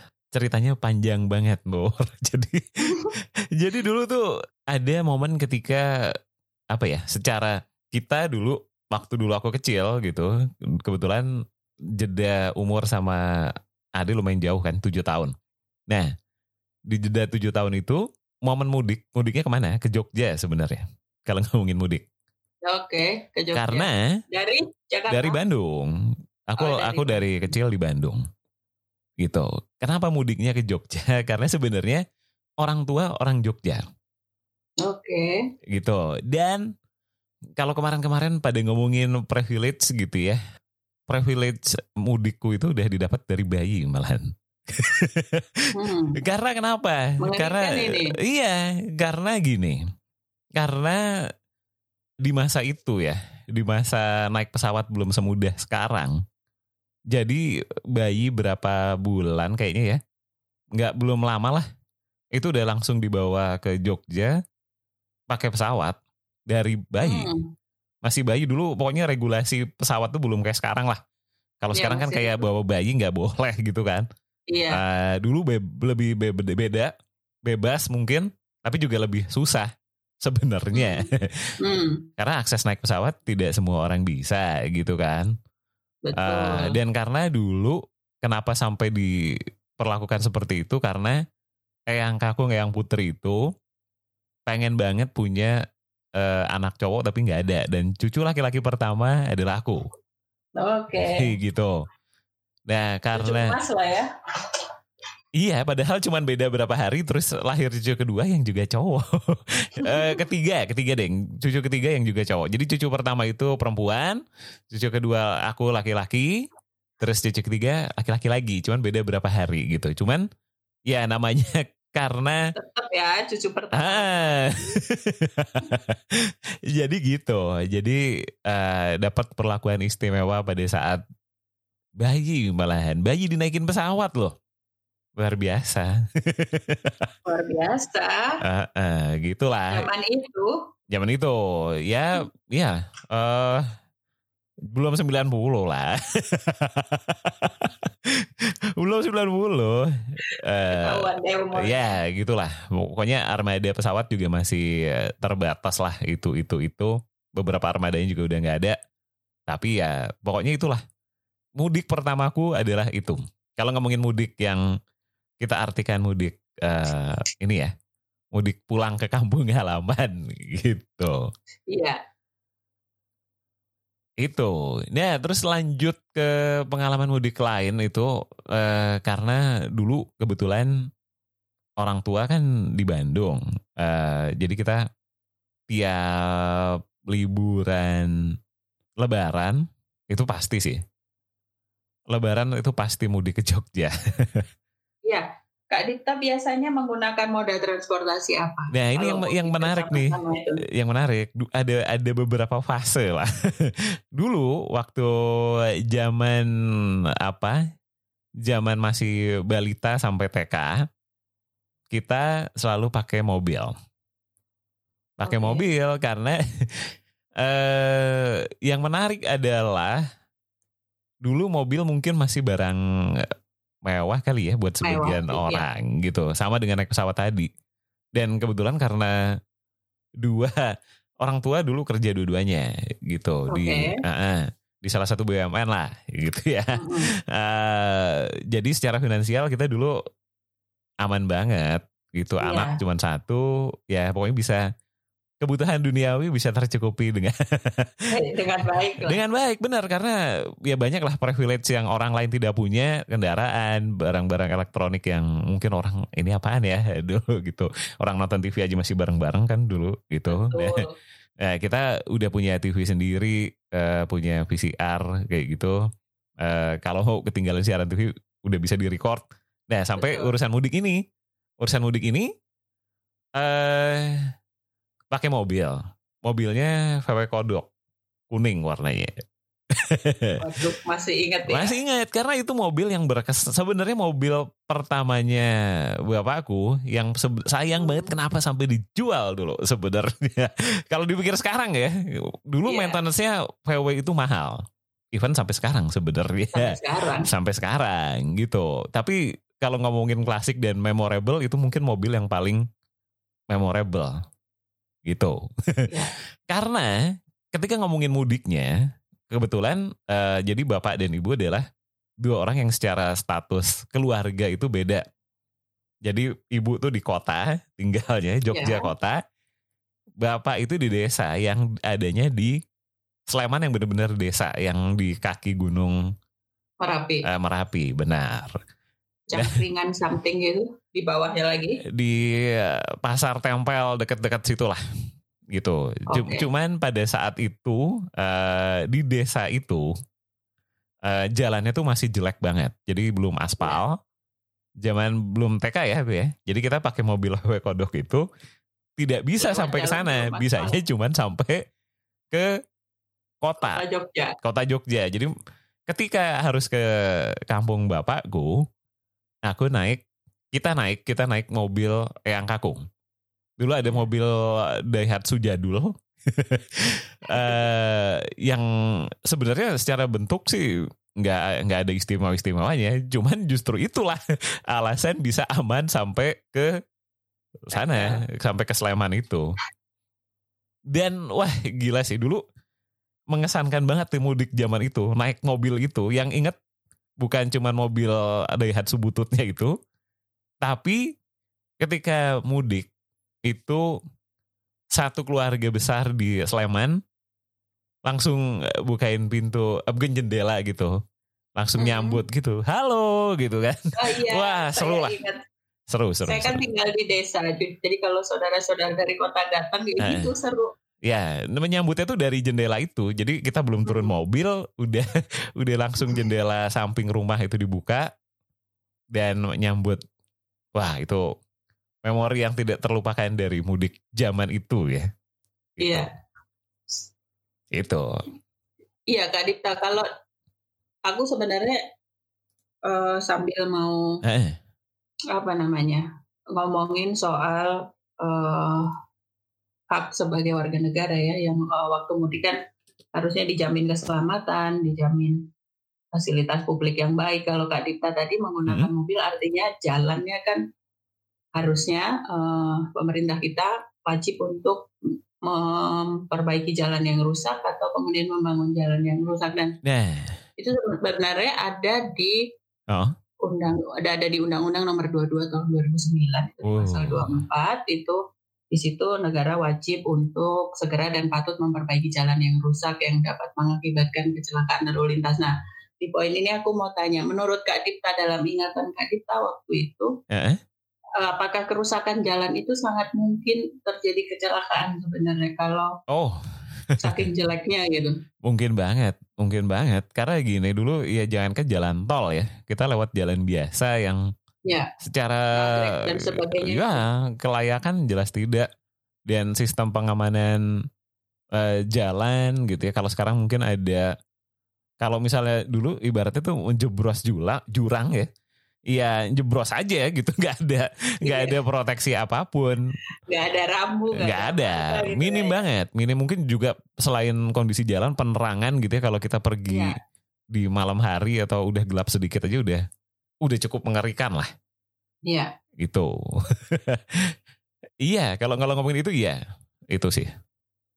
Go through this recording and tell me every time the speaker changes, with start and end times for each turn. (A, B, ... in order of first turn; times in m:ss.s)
0:00.3-0:05.8 A
0:06.7-0:10.3 A
0:10.8-0:11.3 A
0:12.0-0:15.3 A
0:16.9-0:22.0 A
0:22.6-0:25.4 B
0:23.5-0:24.0 A
0:25.1-0:25.9 A
0:26.5-0:28.2 A
0:26.6-0:27.4 B
0:29.2-0:32.0 A
0:32.6-0:33.8 A
0:34.8-0:35.3 B
0:35.7-0:36.7 A
0:37.6-0:40.4 A
0:41.1-0:49.8 A
0:45.7-0:46.2 B
0:47.2-0:48.1 B
0:50.6-0:51.0 A
0:52.2-0:56.2 A
0:57.1-0:57.4 A
0:57.9-1:00.0 A
1:00.8-1:01.6 A
1:02.3-1:04.3 A
1:05.3-1:06.0 A
1:06.5-1:07.3 A
1:07.0-1:07.5 B
1:08.0-1:11.0 A
1:11.6-1:14.1 A
1:11.7-1:12.5 B
1:14.5-1:14.8 B
1:14.7-1:16.9 A
1:17.4-1:19.7 A
1:20.2-1:21.2 A
1:20.7-1:21.1 B
1:21.6-1:22.1 B
1:22.2-1:25.3 A
1:26.0-1:26.8 B
1:26.2-1:29.1 A
1:29.8-1:31.2 A
1:31.9-1:33.4 A
1:34.5-1:35.5 A
1:36.1-1:39.8 A
1:40.6-1:41.3 B
1:40.9-1:41.8 A
1:42.7-1:43.5 A
1:43.1-1:44.1 B
1:45.4-1:56.3 A
1:49.8-1:50.2 B
1:57.0-2:00.2 A
2:00.9-2:02.4 A
2:02.6-2:04.7 B
2:03.8-2:11.0 A
2:12.0-2:14.3 A
2:15.2-2:17.1 A
2:17.2-2:18.4 B
2:18.4-2:19.9 A
2:19.7-2:20.6 B
2:20.9-2:23.6 A
2:24.7-2:28.3 A
2:28.8-2:38.8 A
2:30.3-2:31.8 B
2:39.5-2:40.8 A
2:41.6-2:44.6 A
2:45.4-2:47.7 A
2:48.3-2:51.2 A
2:51.7-2:52.0 B
2:54.2-3:00.7 A
3:01.8-3:04.8 A
3:05.7-3:08.1 A
3:09.0-3:10.8 A
3:12.1-3:14.4 A
3:15.0-3:20.6 B
3:18.7-3:20.2 A
3:20.7-3:26.5 A
3:27.2-3:27.6 A
3:28.4-3:30.8 A
3:31.9-3:33.7 A
3:35.2-3:36.8 A
3:35.2-3:35.7 B
3:37.4-3:40.0 A
3:41.2-3:43.3 A
3:43.8-3:47.5 A
3:44.8-3:45.6 B
3:48.1-3:49.1 A
3:50.2-3:50.6 A
3:51.2-3:59.9 A
3:53.5-3:54.0 B
3:56.8-3:57.1 B
4:01.0-4:04.6 A
4:02.4-4:02.8 B
4:05.4-4:08.0 A
4:08.1-4:09.2 B
4:09.0-4:20.8 A
4:20.3-4:20.9 B
4:21.4-4:25.8 A
4:26.4-4:31.0 A
4:30.0-4:30.3 B
4:31.6-4:32.3 A
4:33.4-4:34.2 A
4:35.1-4:37.7 A
4:38.3-4:39.1 A
4:39.7-4:40.4 A
4:40.4-4:41.7 B
4:41.5-4:45.5 A
4:46.0-4:54.6 A
4:47.8-4:48.1 B
4:52.7-4:53.0 B
4:55.1-5:02.6 A
4:56.5-4:57.3 B
5:03.5-5:04.1 A
5:05.0-5:05.9 A
5:06.5-5:06.9 A
5:07.5-5:08.7 A
5:09.3-5:11.6 A
5:12.2-5:15.0 A
5:16.0-5:19.2 A
5:18.5-5:18.9 B
5:20.2-5:22.6 A
5:23.3-5:26.0 A
5:26.8-5:27.2 B
5:27.2-5:28.6 A
5:29.3-5:31.8 B
5:31.9-5:34.8 A
5:35.5-5:39.9 A
5:36.1-5:36.5 B
5:41.0-5:44.0 A
5:44.8-5:48.2 A
5:49.0-5:51.6 A
5:49.4-5:50.8 B
5:53.4-5:53.8 A
5:53.6-5:54.3 B
5:54.4-5:55.3 A
5:55.9-5:56.8 A
5:57.4-5:58.6 A
5:59.4-6:02.8 A
6:03.6-6:08.6 A
6:07.3-6:07.7 B
6:09.2-6:10.6 A
6:11.2-6:16.7 A
6:17.7-6:19.5 A
6:17.7-6:18.2 B
6:20.9-6:22.4 A
6:23.3-6:26.6 A
6:27.2-6:29.7 A
6:30.6-6:31.0 A
6:31.8-6:32.9 A
6:33.4-6:33.8 A
6:34.9-6:37.0 A
6:38.0-6:40.9 A
6:41.6-6:45.2 A
6:41.8-6:42.2 B
6:44.0-6:45.4 B
6:45.9-6:46.6 A
6:46.2-6:50.7 B
6:50.0-6:50.3 A
6:51.0-6:58.1 A
6:53.9-6:54.1 B
6:59.1-7:00.0 A
7:00.8-7:01.2 A
7:02.0-7:05.1 A
7:05.8-7:06.0 A
7:05.8-7:06.1 B
7:07.7-7:08.0 A
7:09.1-7:10.0 B
7:11.0-7:11.8 B
7:12.9-7:14.0 B
7:14.2-7:14.6 A
7:15.3-7:16.0 B
7:16.5-7:18.9 B
7:19.9-7:22.6 B
7:23.2-7:25.4 B
7:26.1-7:30.6 B
7:31.6-7:34.8 B
7:35.4-7:39.7 B
7:39.8-7:40.3 A
7:40.6-7:42.4 B
7:43.4-7:48.2 B
7:46.6-7:47.4 A
7:48.7-8:00.1 B
8:00.3-8:00.6 A
8:01.2-8:05.9 B
8:06.1-8:07.3 A
8:07.0-8:08.2 B
8:08.4-8:14.2 A
8:15.0-8:18.7 A
8:15.5-8:17.0 B
8:19.3-8:20.6 A
8:21.5-8:24.1 A
8:25.0-8:28.3 A
8:28.9-8:32.8 A
8:31.2-8:31.6 B
8:33.3-8:35.6 B
8:34.2-8:39.9 A
8:39.7-8:40.0 B
8:40.5-8:42.8 A
8:43.4-8:44.5 A
8:45.8-8:47.3 A
8:48.0-8:49.4 A
8:49.9-8:50.3 A